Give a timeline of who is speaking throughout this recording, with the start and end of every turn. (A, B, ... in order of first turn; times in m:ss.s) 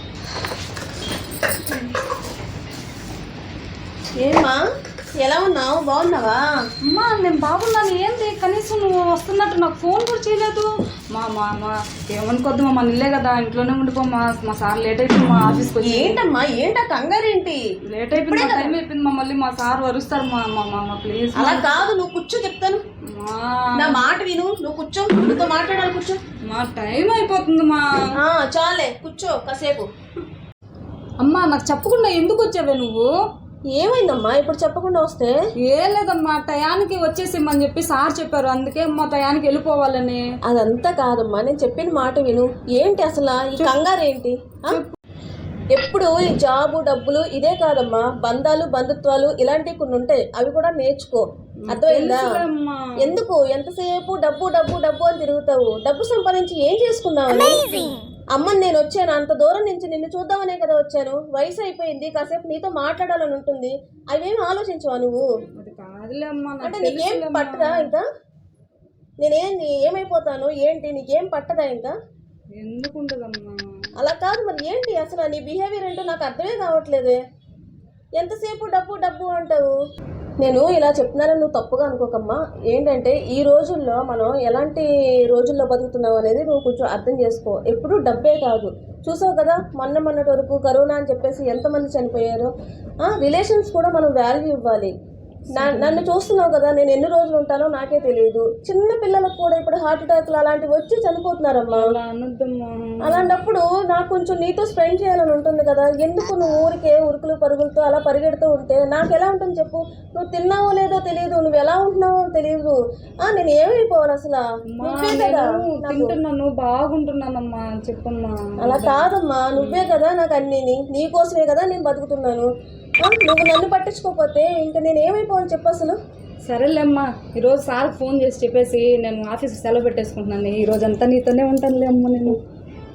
0:01.7-0:01.9 A
0:04.2-0:04.6 B
0:05.2-0:06.4 B
0:06.9-0:16.2 A
0:15.8-0:17.6 B
0:17.9-0:21.8 A
0:18.2-0:18.8 B
0:21.4-0:22.8 B
0:23.1-0:24.0 A
0:23.8-0:26.2 B
0:26.5-0:27.8 A
0:28.2-0:29.9 B
0:31.2-0:33.1 A
0:33.7-0:35.3 B
0:35.7-0:40.2 A
0:40.5-0:44.8 B
0:44.7-0:45.0 A
0:45.8-0:52.4 B
0:51.7-0:53.2 A
0:53.0-1:05.2 B
1:05.6-1:07.9 A
1:06.6-1:08.0 B
1:09.2-1:11.9 B
1:12.6-1:13.6 A
1:14.0-1:17.2 B
1:18.2-1:19.7 B
1:20.4-1:32.5 B
1:33.0-1:34.9 B
1:35.6-1:36.1 A
1:35.6-1:41.9 B
1:41.7-1:43.3 A
1:43.0-1:56.2 B
1:54.8-2:00.0 A
1:58.6-2:02.5 B
2:03.0-2:06.0 B
2:06.5-2:12.4 A